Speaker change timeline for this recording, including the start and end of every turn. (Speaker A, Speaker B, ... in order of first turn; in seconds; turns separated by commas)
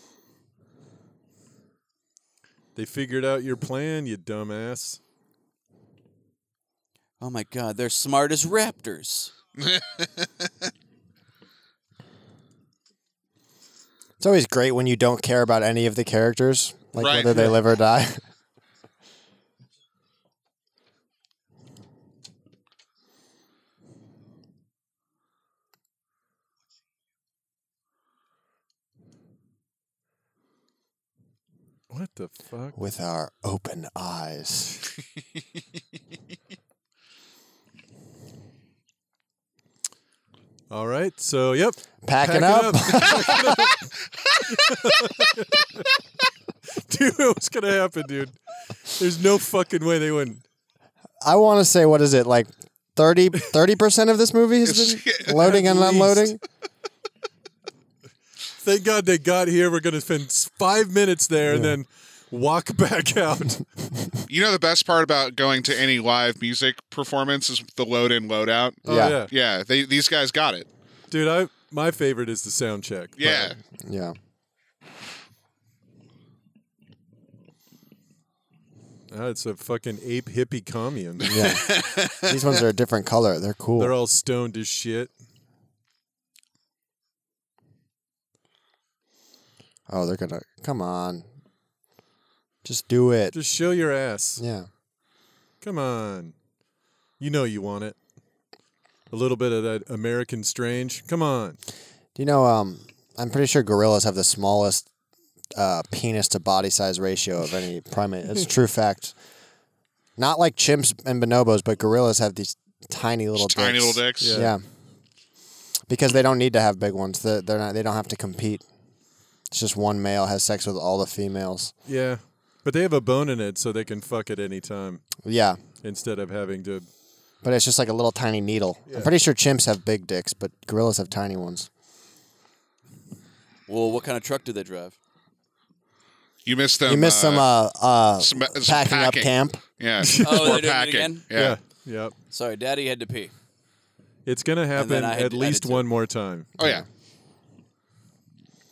Speaker A: 2.8-5.0, Speaker B: 7.2-9.3, Speaker C: 9.6-10.3, Speaker D: 14.2-18.2, Speaker C: 17.0-17.3, Speaker A: 17.3-17.6, Speaker A: 31.9-32.8, Speaker D: 32.7-34.8, Speaker A: 40.7-43.9, Speaker D: 42.0-43.7, Speaker A: 44.5-45.9, Speaker A: 46.9-48.4, Speaker A: 48.9-50.4, Speaker D: 51.2-56.4, Speaker C: 54.6-55.4, Speaker A: 55.4-56.3, Speaker A: 58.6-63.6, Speaker D: 61.5-61.7, Speaker C: 64.3-70.7, Speaker D: 68.8-69.2, Speaker A: 68.8-69.3, Speaker A: 71.1-73.5, Speaker C: 73.2-73.5, Speaker D: 73.8-74.2, Speaker A: 79.1-81.5, Speaker C: 81.2-82.4, Speaker D: 81.3-83.9, Speaker A: 83.8-85.1, Speaker D: 89.9-91.2, Speaker D: 92.6-93.3, Speaker A: 93.3-94.4, Speaker D: 94.4-94.7, Speaker A: 95.6-96.3, Speaker A: 97.2-98.0, Speaker A: 99.1-101.6, Speaker D: 102.2-104.9, Speaker D: 105.5-109.1, Speaker D: 110.2-114.6, Speaker C: 113.4-114.4, Speaker A: 114.2-114.5, Speaker D: 115.9-118.6, Speaker D: 119.5-121.7, Speaker A: 121.8-125.1, Speaker D: 125.2-125.6, Speaker A: 125.8-126.9, Speaker D: 127.4-131.7, Speaker B: 133.7-134.9, Speaker C: 136.4-137.4, Speaker D: 136.8-139.6, Speaker C: 138.2-141.6, Speaker A: 140.0-140.6, Speaker B: 140.2-141.2, Speaker A: 141.3-142.1, Speaker B: 142.3-143.3, Speaker A: 144.2-146.5, Speaker B: 144.7-145.8, Speaker D: 146.6-146.8, Speaker C: 146.6-146.8